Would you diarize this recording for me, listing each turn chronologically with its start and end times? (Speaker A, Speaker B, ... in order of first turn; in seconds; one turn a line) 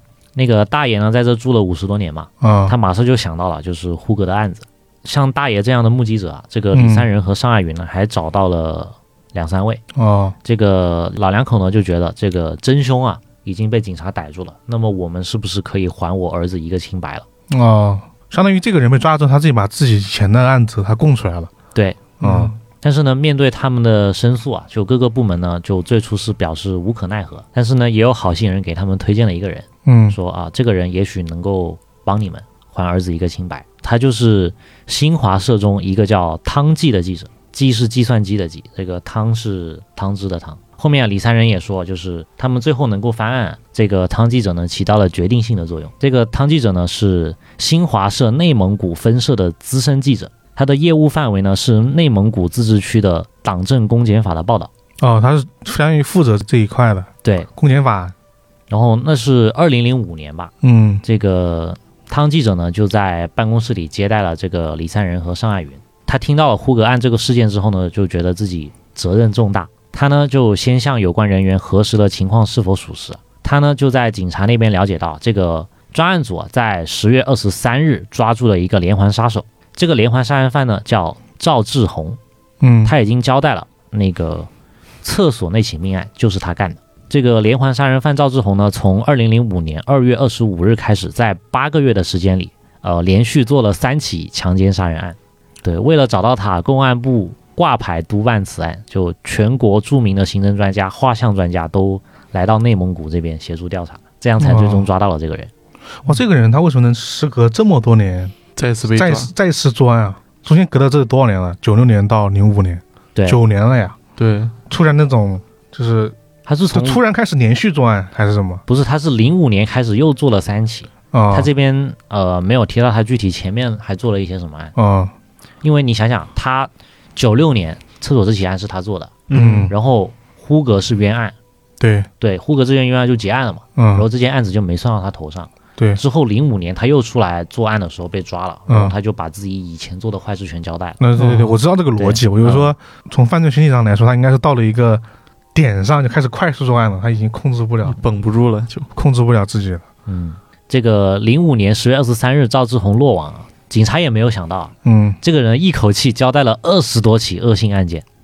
Speaker A: 0.4-9.8
Speaker B: 2.4-2.7
Speaker B: 6.7-7.1
Speaker B: 9.9-10.4
Speaker A: 10.4-17.2
Speaker B: 17.5-21.5
Speaker A: 21.8-54.7
Speaker B: 22.2-22.5
Speaker C: 22.2-22.5
Speaker B: 29.9-30.1
Speaker B: 55.0-58.1
Speaker A: 58.7-60.5
Speaker B: 60.6-61.0
Speaker A: 61.0-82.2
Speaker B: 82.6-82.9
Speaker A: 82.8-84.5
Speaker A: 85.0-105.5
Speaker B: 104.4-104.9
Speaker B: 106.0-108.4
Speaker C: 108.6-109.3
Speaker B: 108.9-114.0
Speaker C: 114.2-114.5
Speaker B: 114.7-116.2
Speaker A: 116.5-117.0
Speaker B: 116.7-118.6
Speaker A: 118.7-124.7
Speaker B: 121.1-121.5
Speaker B: 124.8-125.1
Speaker A: 125.6-131.3
Speaker C: 129.3-129.7
Speaker B: 129.3-129.7
Speaker B: 131.8-132.1
Speaker A: 132.2-141.0
Speaker B: 133.8-134.1
Speaker B: 138.7-138.9
Speaker B: 141.0-145.0
Speaker C: 141.2-141.5
Speaker A: 141.9-142.7
Speaker B: 145.6-148.0
Speaker C: 147.8-148.9
Speaker B: 148.9-149.8
Speaker A: 150.1-158.0
Speaker B: 154.8-155.2